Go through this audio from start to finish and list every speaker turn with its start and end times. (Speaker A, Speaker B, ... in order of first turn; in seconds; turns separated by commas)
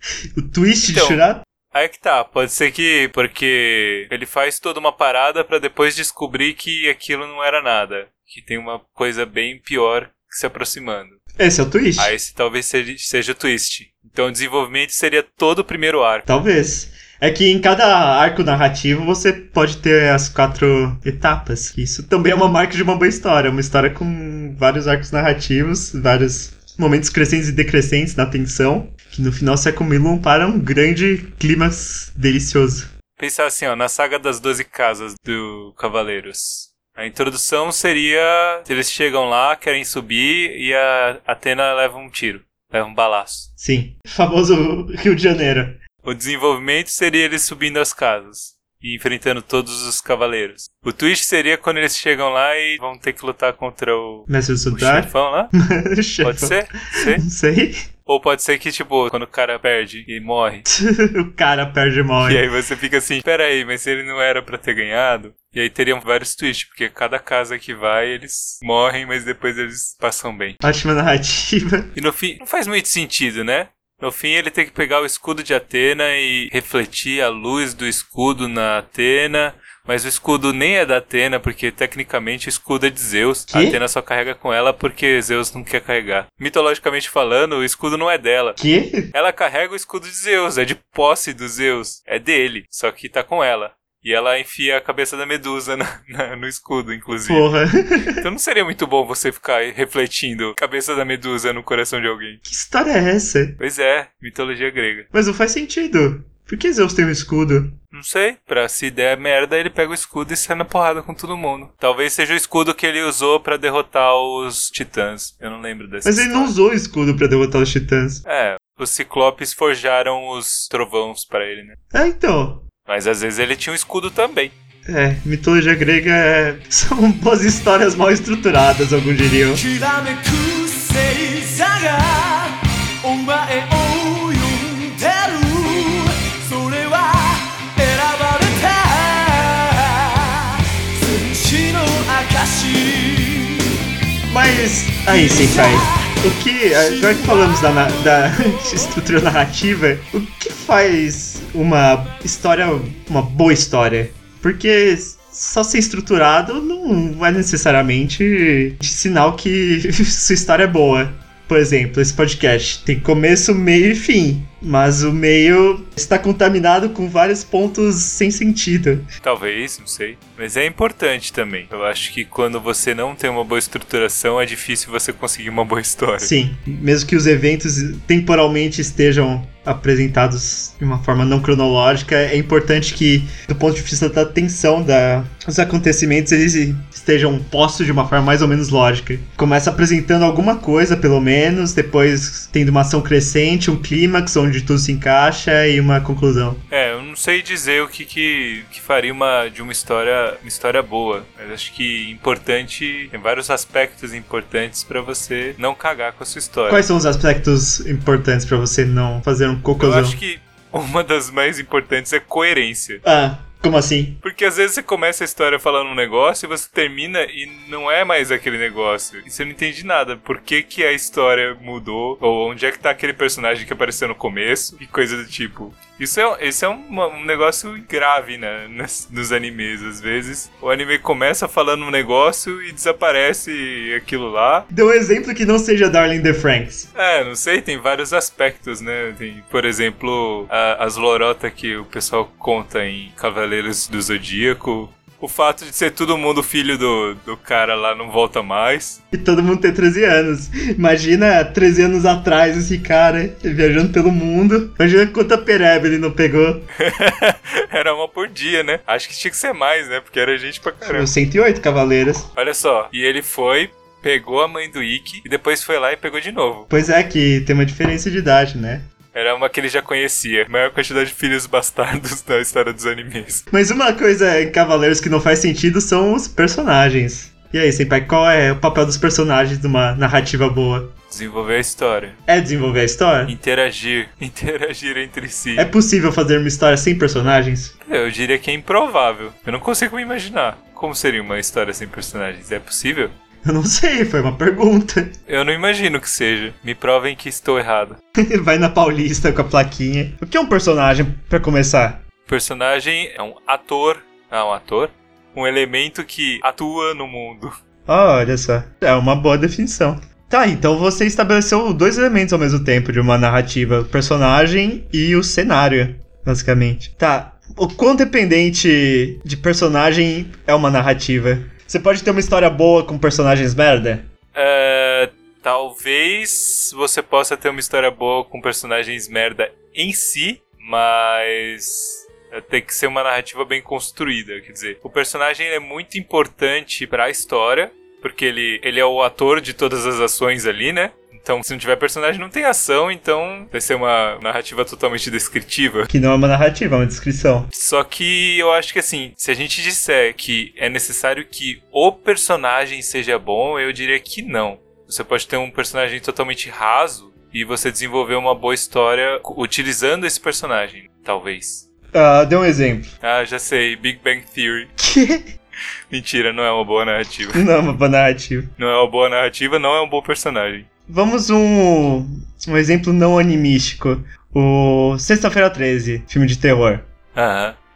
Speaker A: 0.3-1.4, Speaker B: 0.8-11.2, Speaker A: 11.4-12.1, Speaker B: 12.0-16.3, Speaker A: 16.2-32.9, Speaker B: 33.2-43.5, Speaker A: 43.6-45.8, Speaker B: 46.0-55.5, Speaker A: 54.3-57.8, Speaker B: 56.2-57.2, Speaker B: 58.0-60.6, Speaker A: 60.6-62.4, Speaker B: 62.2-70.6, Speaker A: 70.6-71.9, Speaker B: 71.9-88.6, Speaker A: 83.5-83.8, Speaker A: 88.6-89.1, Speaker B: 89.1-97.6, Speaker A: 97.3-98.2, Speaker B: 98.2-102.4, Speaker A: 102.4-103.6, Speaker B: 103.6-105.1, Speaker A: 105.1-107.8, Speaker B: 107.9-116.5, Speaker A: 116.0-118.2, Speaker B: 118.2-121.8, Speaker A: 121.9-122.6, Speaker B: 122.9-124.5, Speaker A: 124.8-129.6, Speaker C: 129.5-143.7, Speaker A: 144.3-169.1, Speaker C: 145.1-146.1, Speaker C: 146.7-149.0, Speaker B: 169.2-176.3, Speaker A: 176.2-196.6, Speaker B: 196.7-206.8, Speaker A: 206.7-210.2, Speaker B: 209.8-213.0, Speaker A: 213.0-214.2, Speaker B: 214.2-234.7, Speaker A: 234.7-236.9, Speaker B: 236.9-249.0, Speaker A: 249.1-256.7, Speaker B: 256.8-261.1, Speaker A: 260.8-262.3, Speaker B: 262.4-266.7, Speaker A: 266.7-268.9, Speaker B: 269.1-273.4, Speaker A: 273.5-280.9, Speaker B: 281.1-282.2, Speaker A: 282.3-283.3, Speaker B: 283.2-285.7, Speaker A: 285.6-287.7, Speaker B: 287.8-293.1, Speaker A: 293.4-295.1, Speaker B: 295.3-298.0, Speaker A: 298.2-302.0, Speaker B: 302.2-307.6, Speaker A: 307.9-324.1, Speaker B: 324.3-345.9, Speaker A: 345.9-347.5, Speaker B: 347.5-361.6, Speaker A: 361.9-362.9, Speaker B: 363.0-364.7, Speaker A: 364.8-365.2, Speaker B: 365.9-367.4, Speaker A: 367.3-368.5, Speaker B: 368.6-370.7, Speaker A: 370.9-376.9, Speaker B: 377.1-377.6